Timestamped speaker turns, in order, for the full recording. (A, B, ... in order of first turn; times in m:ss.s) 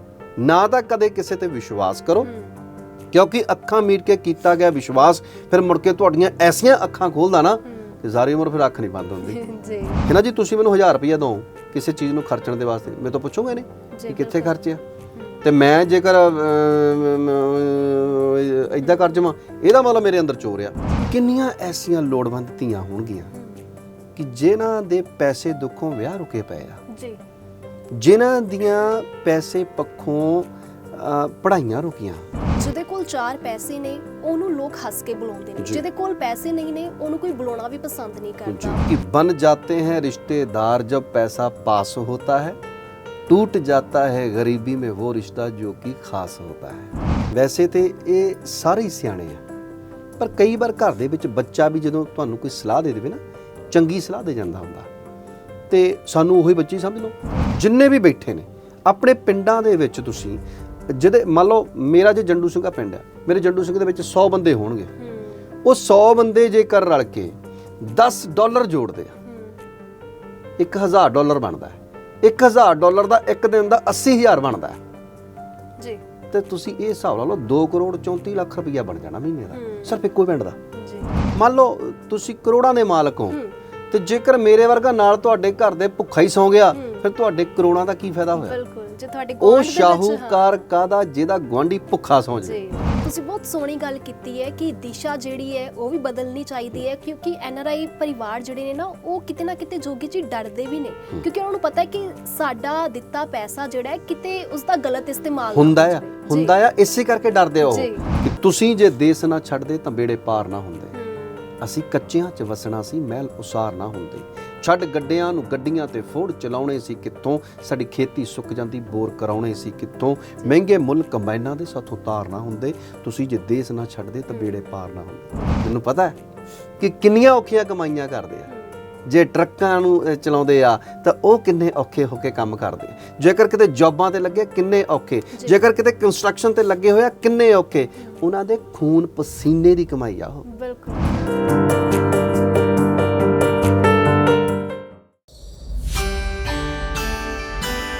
0:00.4-0:02.3 A
0:02.2-0:02.6 B
0:03.1-0:09.4 A
0:07.6-0:08.0 B
0:09.2-0:10.1 B
0:10.0-0:14.8 A
0:13.9-0:14.6 B
0:15.1-0:15.4 B
0:15.4-0:23.3 A
0:18.8-0:19.2 B
0:23.3-0:23.6 B
0:24.2-0:26.8 A
0:26.9-0:27.2 B
0:27.9-0:32.2 A
0:32.6-0:38.8 B
0:35.6-0:35.8 A
0:38.4-0:42.6 A
0:43.3-0:49.4 A
0:50.2-0:54.9 A
0:55.7-1:04.9 A
1:05.0-1:05.5 B
1:05.6-1:09.2 A
1:09.2-1:09.6 B
1:10.6-1:14.8 A
1:15.8-1:16.0 B
1:16.3-1:20.6 A
1:19.5-1:20.0 B
1:20.7-1:21.3 B
1:21.3-1:23.4 A
1:23.3-1:23.6 B
1:23.9-1:28.6 A
1:26.7-1:27.1 B
1:28.4-1:30.6 B
1:29.4-1:32.6 A
1:32.4-1:46.5 B
1:45.5-1:50.9 A
1:47.6-1:48.1 B
1:50.9-1:51.5 B
1:51.6-2:06.2 A
2:04.3-2:04.6 B
2:06.8-2:08.5 A
2:08.5-2:08.8 B
2:09.0-2:20.4 A
2:20.4-2:21.3 B